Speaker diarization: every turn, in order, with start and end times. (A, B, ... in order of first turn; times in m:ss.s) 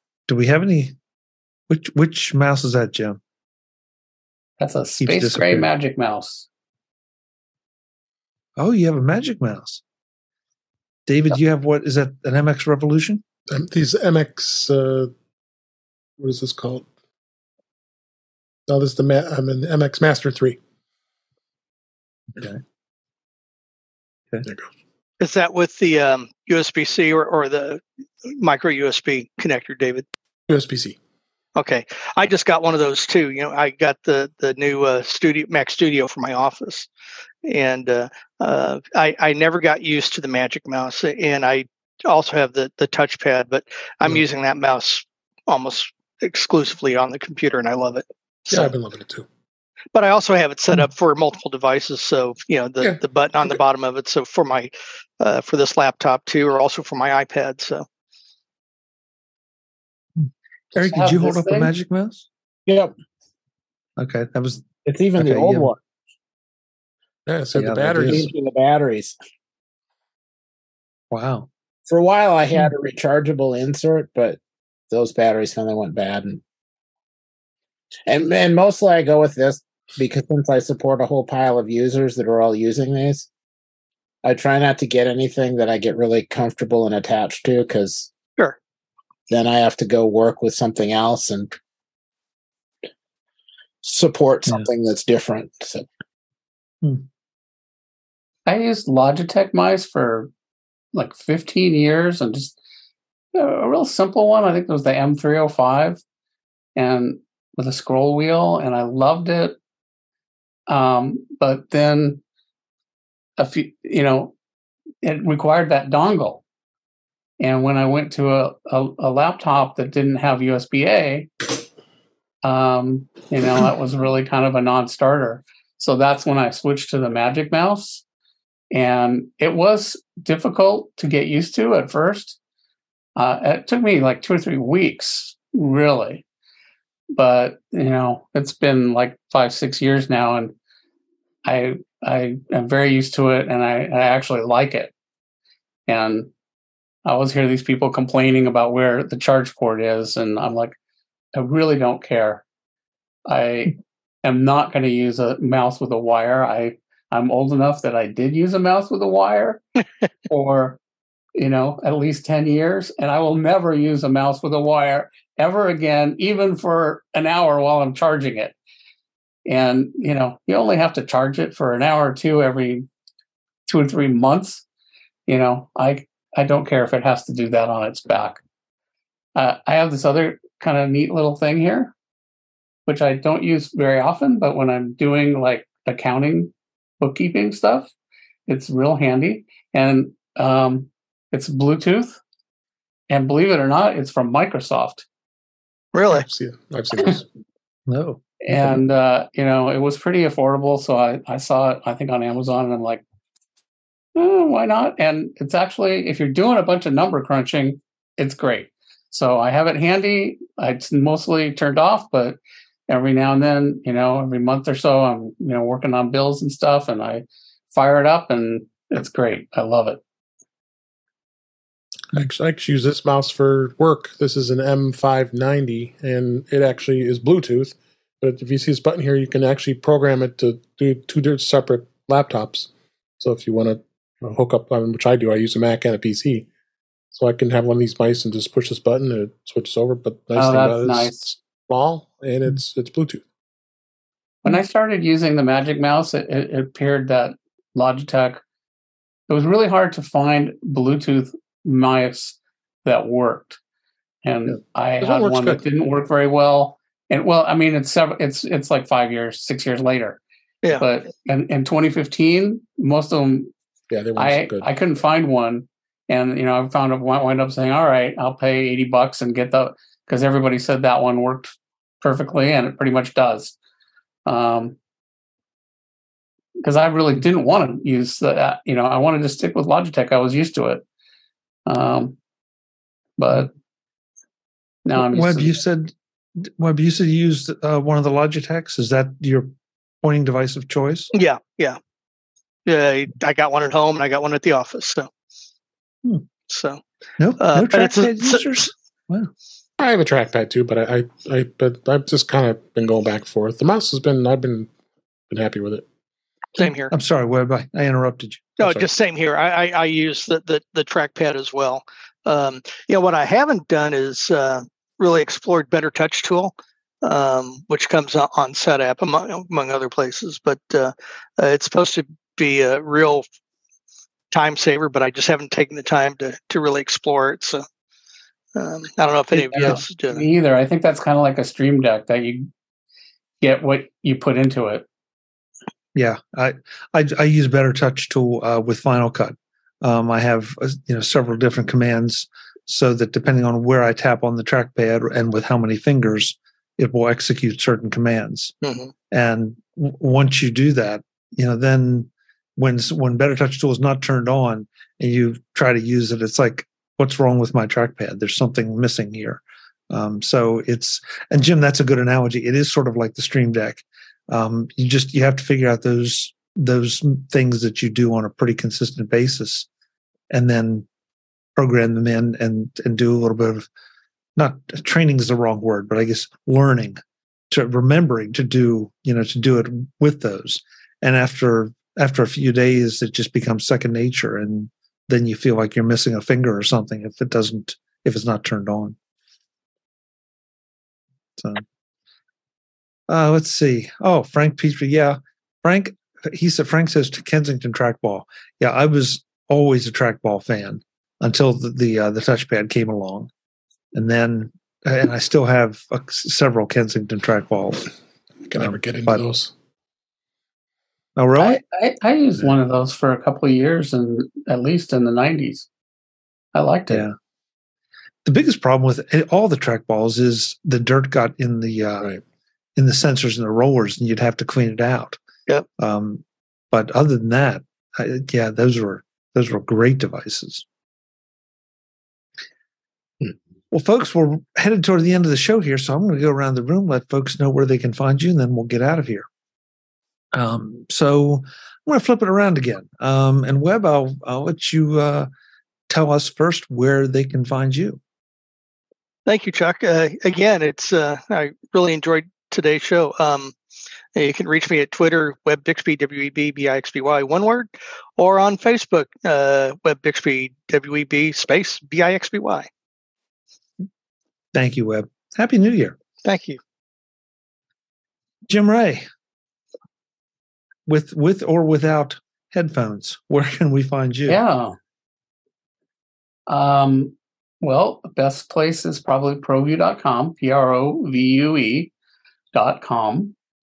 0:00.3-0:01.0 A
0:01.7-0:03.2 A
0:04.6-0:06.5 B
0:05.0-0:05.7 A
0:08.6-0:09.8 A
0:11.1-0:13.2 A
0:13.5-0:15.1 C
0:16.2-0:16.9 C
0:18.7-0:20.6 C
0:24.4-0:24.7 C
0:25.2-0:30.1 D
0:30.5-0:31.0 C
0:31.6-0:36.9 D
0:37.4-0:48.7 D
0:48.5-0:49.3 C
0:49.9-0:57.8 D
1:00.2-1:02.3 A
1:00.8-1:01.7 B
1:02.7-1:02.9 E
1:04.0-1:05.7 A
1:04.8-1:05.8 E
1:07.3-1:08.3 C
1:07.6-1:08.3 A
1:08.0-1:09.2 E
1:11.1-1:11.5 A
1:11.9-1:14.4 E
1:14.9-1:16.4 E
1:18.1-1:23.3 E
1:24.2-1:28.1 E
1:29.3-1:31.5 E
1:33.8-1:35.9 E
1:38.5-1:40.3 B
1:40.9-1:42.6 B
1:43.4-1:46.0 B
1:46.8-1:49.6 B
1:50.7-1:52.2 B
1:53.4-1:54.3 B
1:55.0-1:56.4 B
1:57.4-2:01.3 B
2:02.4-2:08.0 B
2:08.7-2:12.4 B
2:13.2-2:16.2 B
2:17.1-2:20.5 B
2:21.4-2:24.9 B
2:25.9-2:26.3 B
2:27.0-2:30.8 B
2:31.3-2:32.4 B
2:33.3-2:39.6 B
2:40.3-2:40.8 B
2:41.4-2:48.6 B
2:49.5-2:52.9 B
2:53.7-2:54.6 B
2:55.3-2:58.4 B
2:59.4-3:01.9 B
3:02.9-3:07.9 B
3:08.5-3:12.2 B
3:13.1-3:15.0 B
3:15.9-3:16.3 D
3:16.1-3:17.3 C
3:17.9-3:18.2 A
3:18.4-3:23.0 B
3:24.2-3:32.4 B
3:32.9-3:40.0 B
3:42.1-3:56.5 C
3:57.1-4:03.2 C
4:00.4-4:01.4 B
4:04.4-4:08.4 B
4:09.3-4:13.6 B
4:14.2-4:20.2 B
4:14.5-4:15.6 C
4:20.7-4:23.5 B
4:23.9-4:24.7 C
4:24.2-4:33.6 B
4:34.3-4:34.8 B
4:36.6-4:40.8 B
4:41.7-4:42.2 B
4:43.2-4:43.5 B
4:44.8-4:45.5 B
4:45.0-4:51.1 A
4:51.1-4:51.8 D
4:52.7-4:55.1 D
4:56.5-4:56.8 D
4:57.2-4:59.3 A
4:57.4-4:58.6 D
4:59.8-5:04.7 C
5:05.3-5:05.9 C
5:06.6-5:06.9 D
5:06.9-5:08.5 A
5:08.6-5:23.2 D
5:08.6-5:08.9 C
5:24.3-5:27.6 D
5:28.6-5:30.2 D
5:29.3-5:32.5 B
5:33.4-5:34.8 B
5:36.0-5:48.5 A
5:48.6-5:48.9 D
5:49.1-6:09.7 A
6:10.3-6:10.9 A
6:11.6-6:13.7 A
6:14.4-6:17.0 A
6:17.5-6:29.0 A
6:31.4-6:31.6 A
6:33.1-6:43.3 A
6:43.9-6:47.9 A
6:48.4-6:49.5 C
6:48.6-6:49.2 A
6:51.2-6:51.6 A
6:51.4-6:55.7 B
6:56.5-6:57.1 B
6:56.9-6:57.1 A
6:58.3-7:02.1 A
7:02.8-7:05.2 A
7:05.8-7:10.6 A
7:13.7-7:19.3 A
7:20.3-7:25.3 A
7:25.9-7:28.0 A
7:29.3-7:33.5 D
7:34.2-7:42.7 D
7:44.5-7:46.0 A
7:46.2-7:46.6 D
7:48.5-7:49.1 A
7:50.9-7:54.4 A
7:54.3-7:54.8 B
7:56.5-8:01.9 B
8:02.5-8:03.4 B